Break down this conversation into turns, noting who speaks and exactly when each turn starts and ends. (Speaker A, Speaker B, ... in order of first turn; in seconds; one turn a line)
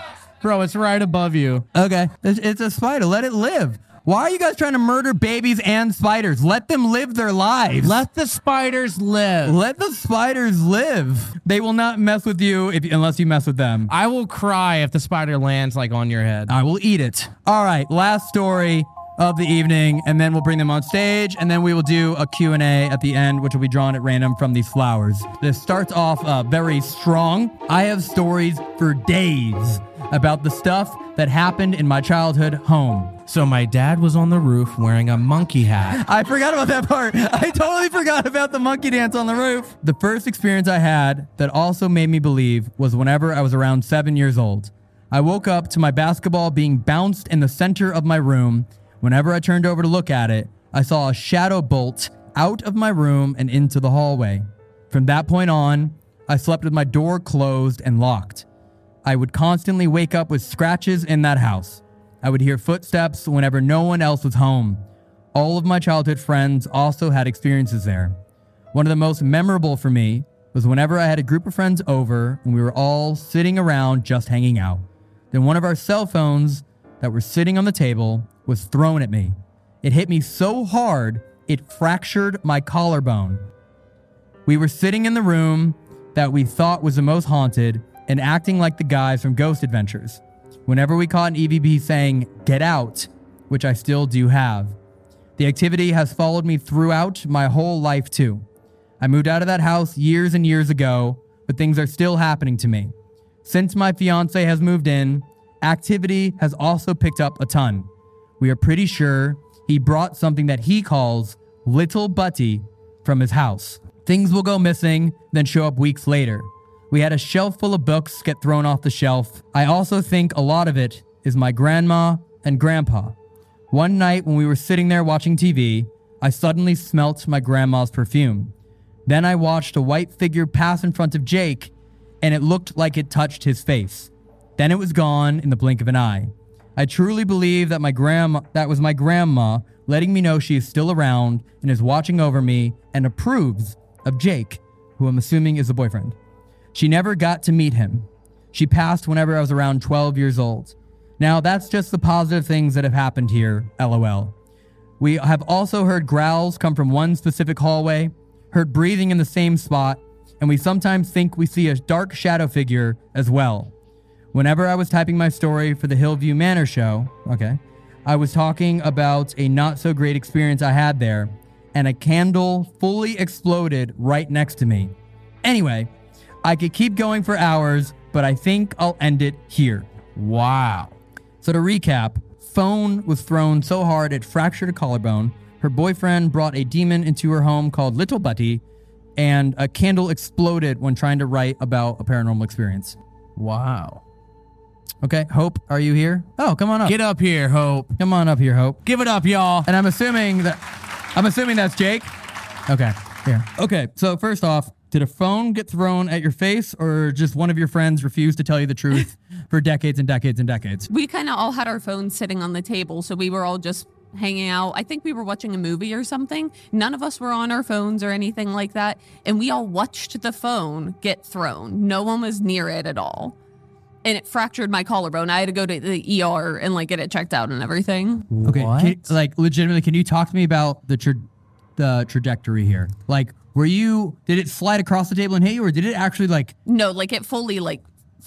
Speaker A: 0.4-1.6
Speaker B: 1.7-8.0
Speaker A: 7.8-9.6
Speaker B: 9.4-13.9
Speaker A: 13.9-16.5
Speaker B: 16.5-33.1
Speaker A: 33.3-36.0
Speaker B: 35.9-58.4
Speaker B: 59.0-68.2
Speaker B: 68.7-83.5
Speaker B: 84.5-94.8
Speaker B: 95.4-98.4
Speaker B: 99.0-102.9
Speaker B: 103.4-107.9
Speaker B: 108.4-123.2
Speaker B: 123.7-128.5
Speaker B: 129.1-146.2
Speaker B: 146.7-154.3
Speaker B: 155.0-163.7
Speaker B: 164.3-175.9
Speaker B: 176.4-179.9
Speaker A: 180.2-180.9
Speaker B: 181.4-188.6
Speaker B: 189.2-193.0
Speaker A: 193.4-194.0
Speaker B: 195.0-196.9
Speaker A: 196.8-198.0
Speaker B: 198.0-198.8
Speaker A: 198.8-199.7
Speaker B: 199.6-200.6
Speaker B: 201.1-202.1
Speaker B: 202.7-210.9
Speaker C: 210.9-223.3
Speaker C: 224.0-228.3
Speaker A: 228.3-229.1
Speaker B: 228.4-231.2
Speaker B: 231.8-236.5
Speaker C: 236.7-237.8